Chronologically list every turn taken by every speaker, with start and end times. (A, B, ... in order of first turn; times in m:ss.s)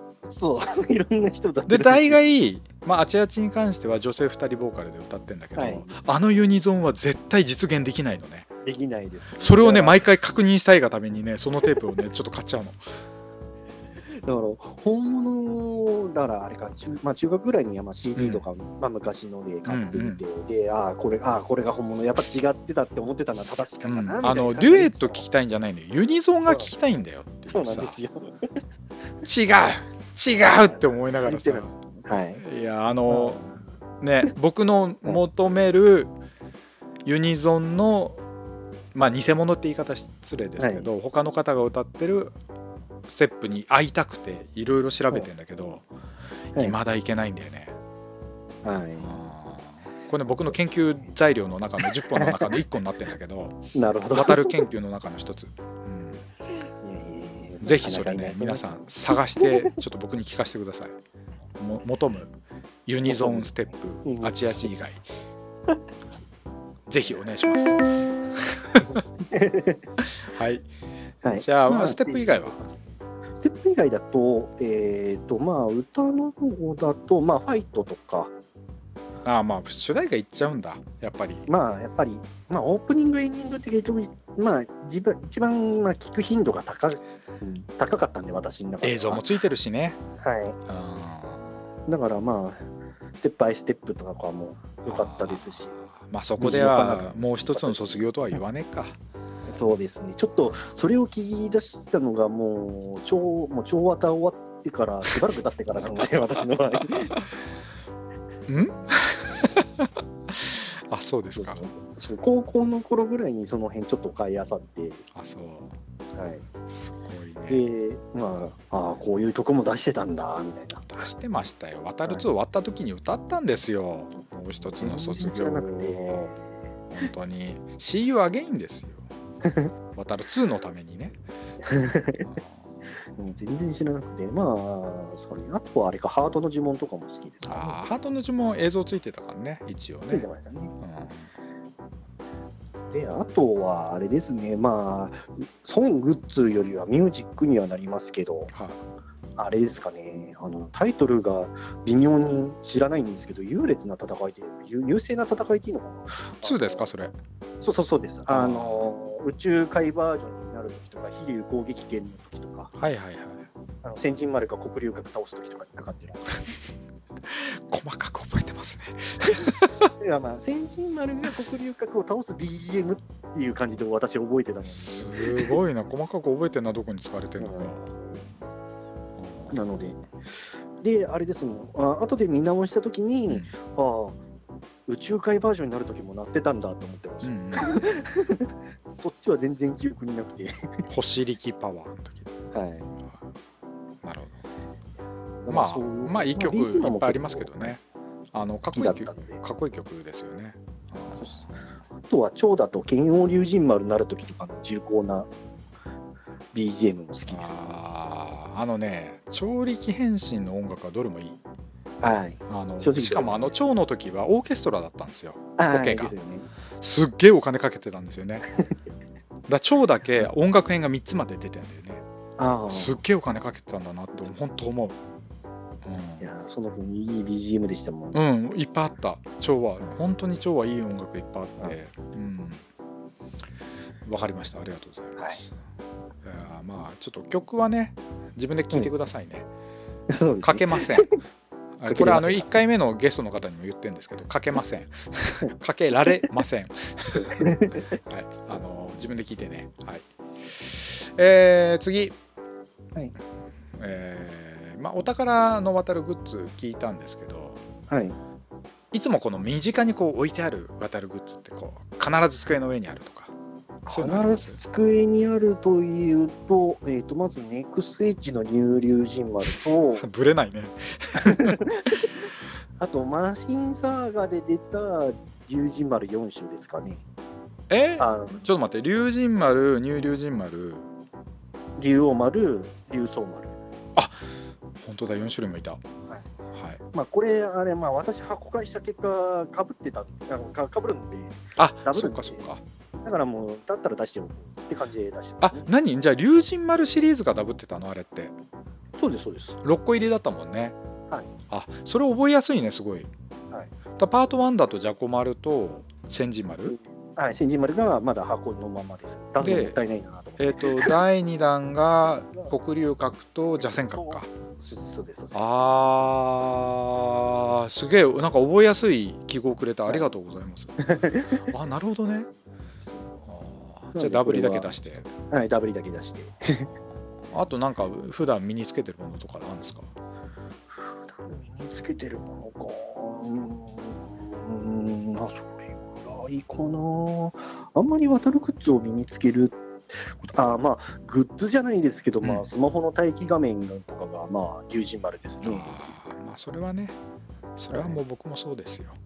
0:00.3-0:02.2 A
0:01.7-0:08.5 B
0:05.6-0:05.9 A
0:08.6-0:10.0 A
0:09.4-0:12.9 B
0:14.2-0:25.2 A
0:18.2-0:18.4 B
0:19.7-0:20.2 B
0:23.8-0:28.0 B
0:27.5-0:28.5 A
0:29.2-0:31.7 B
0:30.4-0:32.4 A
0:32.4-0:33.4 B
0:33.1-0:33.6 A
0:34.0-0:36.1 B
0:37.0-0:38.2 B
0:38.9-0:42.3 B
0:40.6-0:40.9 A
0:43.1-0:45.9 B
0:46.5-0:47.7 B
0:48.6-0:49.1 A
0:49.0-0:56.2 B
0:50.4-0:51.1 A
0:52.1-0:52.4 A
0:53.7-0:54.5 A
0:56.8-0:58.9 A
0:57.6-1:01.0 B
1:01.6-1:05.1 B
1:03.0-1:04.7 A
1:06.9-1:09.0 B
1:09.2-1:09.8 A
1:10.0-1:10.7 B
1:11.2-1:12.8 A
1:11.3-1:12.6 B
1:13.4-1:18.3 A
1:19.2-1:21.5 B
1:21.5-1:29.2 A
1:28.8-1:30.0 B
1:30.2-1:30.6 A
1:30.7-1:31.6 B
1:31.9-1:35.7 A
1:34.8-1:39.0 B
1:36.4-1:38.0 A
1:39.5-1:47.2 A
1:48.5-1:51.6 B
1:48.6-1:48.9 A
1:51.3-1:55.0 A
1:55.1-1:55.7 B
1:56.1-1:56.4 A
1:56.7-1:57.6 B
1:57.5-2:00.9 A
2:00.8-2:06.3 B
2:04.8-2:06.4 A
2:06.9-2:09.1 B
2:09.4-2:09.7 A
2:09.9-2:11.2 B
2:11.6-2:12.2 A
2:12.2-2:12.9 B
2:13.2-2:17.8 A
2:17.4-2:20.3 B
2:20.1-2:20.7 A
2:20.8-2:21.3 B
2:22.9-2:28.5 A
2:28.5-2:28.8 B
2:29.4-2:36.8 A
2:36.4-2:37.2 B
2:37.6-2:42.7 A
2:38.3-2:38.9 B
2:42.7-2:43.5 B
2:43.8-2:46.4 A
2:47.3-2:49.9 B
2:50.0-2:55.5 A
2:54.6-2:58.0 B
2:57.4-2:58.2 A
2:59.2-2:59.6 B
2:59.5-3:00.0 A
3:00.8-3:04.2 A
3:04.9-3:10.7 A
3:07.2-3:07.9 B
3:10.9-3:12.3 B
3:12.5-3:12.8 A
3:14.0-3:14.4 B
3:15.4-3:17.8 A
3:15.5-3:17.8 B
3:18.3-3:21.6 B
3:18.6-3:19.4 A
3:21.2-3:25.3 A
3:26.5-3:27.8 A
3:27.3-3:31.4 B
3:32.0-3:33.5 A
3:32.5-3:36.1 B
3:35.6-3:36.5 A
3:36.8-3:38.5 B
3:39.5-3:42.0 B
3:42.4-3:43.0 A
3:42.7-3:45.0 B
3:45.8-3:46.3 B
3:46.2-3:48.2 A
3:48.1-3:52.6 B
3:54.0-3:55.5 B
3:56.2-3:59.5 B
4:00.1-4:01.1 A
4:00.4-4:01.2 B
4:01.8-4:12.2 B
4:01.8-4:02.6 A
4:07.2-4:07.8 A
4:13.8-4:17.6 B
4:17.9-4:18.2 A
4:18.9-4:23.3 B
4:23.8-4:30.0 A
4:23.9-4:24.6 B
4:29.9-4:31.6 B
4:31.2-4:32.1 A
4:32.8-4:37.0 A
4:37.7-4:40.9 B
4:38.0-4:38.4 A
4:41.8-4:43.5 A
4:44.8-4:45.8 B
4:46.5-4:46.8 B
4:46.9-4:55.7 A
4:51.6-4:52.6 B
4:55.4-4:58.3 B
4:59.0-4:59.6 A
4:59.6-5:00.8 B
5:01.5-5:03.1 B
5:04.0-5:06.8 B
5:06.7-5:10.9 A
5:09.4-5:09.8 B
5:10.4-5:14.3 B
5:14.0-5:15.5 A
5:15.3-5:22.3 B
5:21.0-5:21.4 A
5:22.8-5:23.2 A
5:23.2-5:25.1 B
5:23.9-5:26.7 A
5:26.6-5:29.9 B
5:31.0-5:45.8 A
5:42.2-5:42.5 B
5:45.4-5:47.0 B
5:47.6-5:49.0 B
5:47.7-5:48.0 A